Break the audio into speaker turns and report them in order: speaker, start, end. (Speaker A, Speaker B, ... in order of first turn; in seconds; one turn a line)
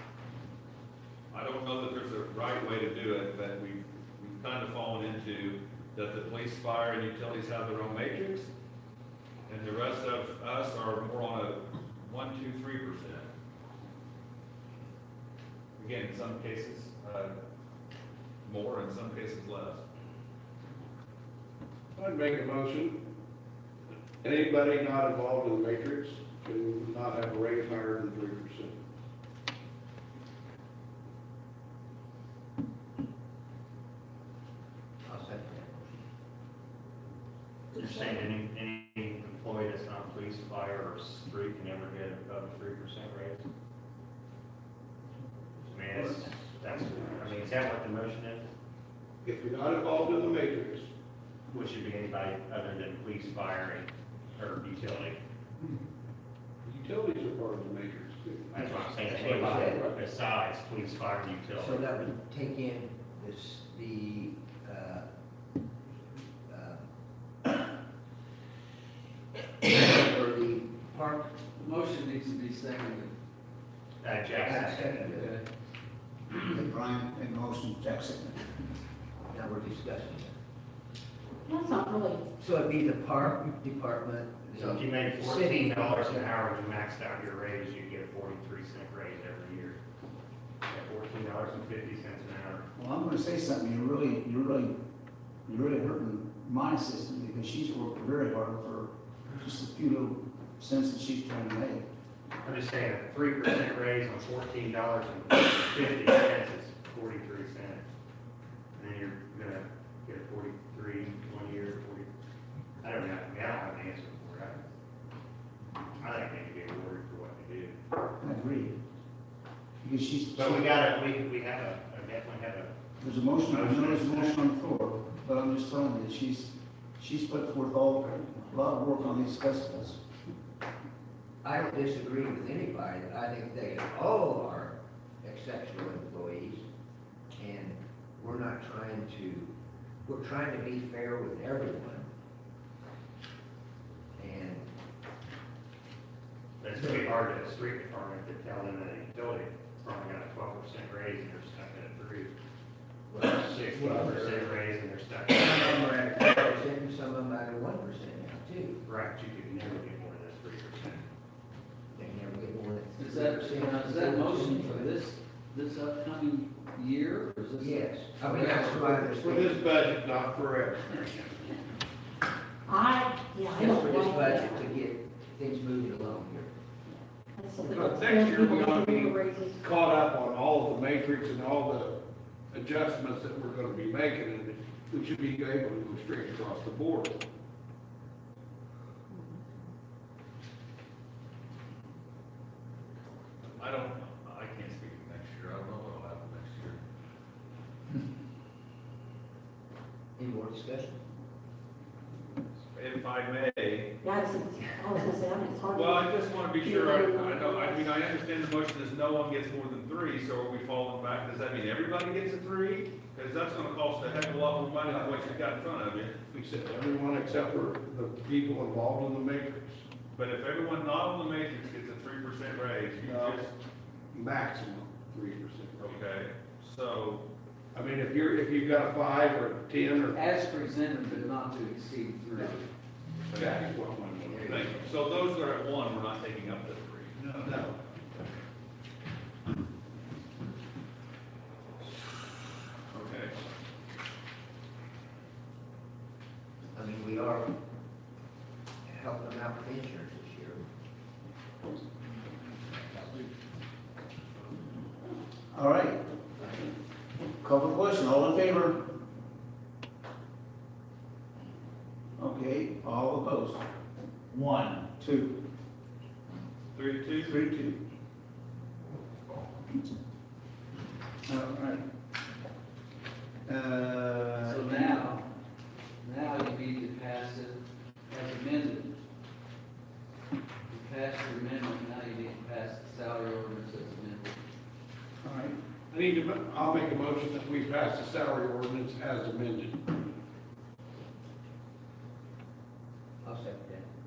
Speaker A: 1.3-8.5
Speaker A: 9.5-13.3
Speaker A: 15.8-17.3
Speaker A: 18.4-19.8
Speaker B: 21.9-23.0
Speaker B: 24.2-28.8
Speaker C: 35.0-36.0
Speaker D: 37.8-43.5
Speaker D: 45.7-48.5
Speaker B: 49.2-50.9
Speaker D: 51.5-55.2
Speaker B: 56.6-58.6
Speaker D: 58.5-61.9
Speaker C: 58.6-59.9
Speaker C: 61.5-65.0
Speaker C: 66.5-66.9
Speaker C: 69.6-71.4
Speaker E: 71.6-73.1
Speaker D: 74.0-75.1
Speaker C: 74.4-75.4
Speaker E: 75.1-75.4
Speaker F: 76.3-78.5
Speaker C: 79.3-80.3
Speaker G: 81.5-82.2
Speaker C: 82.4-86.3
Speaker D: 84.5-89.8
Speaker D: 90.7-92.6
Speaker F: 92.8-94.8
Speaker F: 95.5-101.8
Speaker D: 102.4-107.8
Speaker D: 108.8-112.1
Speaker D: 112.8-114.6
Speaker D: 116.0-117.8
Speaker F: 118.2-118.8
Speaker F: 119.8-120.7
Speaker D: 120.3-122.7
Speaker F: 123.0-130.0
Speaker D: 123.5-124.4
Speaker C: 131.4-136.7
Speaker C: 137.3-139.5
Speaker C: 140.1-142.1
Speaker C: 144.2-144.7
Speaker D: 146.6-152.3
Speaker C: 153.1-154.6
Speaker D: 153.2-155.9
Speaker C: 155.3-158.8
Speaker D: 158.8-161.1
Speaker C: 161.9-164.9
Speaker E: 163.0-169.2
Speaker C: 167.6-169.7
Speaker B: 168.9-171.4
Speaker G: 172.7-174.7
Speaker C: 173.5-176.5
Speaker G: 176.9-179.6
Speaker B: 177.6-182.0
Speaker B: 182.5-187.2
Speaker A: 193.6-196.8
Speaker C: 200.2-201.0
Speaker A: 202.8-203.9
Speaker G: 204.0-207.9
Speaker A: 205.7-216.2
Speaker B: 216.3-219.8
Speaker A: 220.1-223.5
Speaker B: 223.0-223.4
Speaker B: 224.1-225.9
Speaker A: 225.8-227.2
Speaker B: 227.7-230.2
Speaker E: 230.1-232.6
Speaker B: 233.3-234.7
Speaker A: 234.3-237.3
Speaker B: 237.2-237.7
Speaker C: 246.7-247.5
Speaker C: 248.8-250.6
Speaker C: 252.7-253.3
Speaker F: 255.5-256.0
Speaker F: 257.4-258.8
Speaker F: 262.2-263.6
Speaker F: 264.3-265.4
Speaker A: 266.8-267.3
Speaker F: 267.2-267.8
Speaker F: 271.3-271.8
Speaker F: 273.4-274.9
Speaker E: 274.4-275.2
Speaker E: 276.0-278.9
Speaker E: 280.7-284.3
Speaker F: 285.2-285.6
Speaker B: 285.9-289.8
Speaker C: 293.2-293.8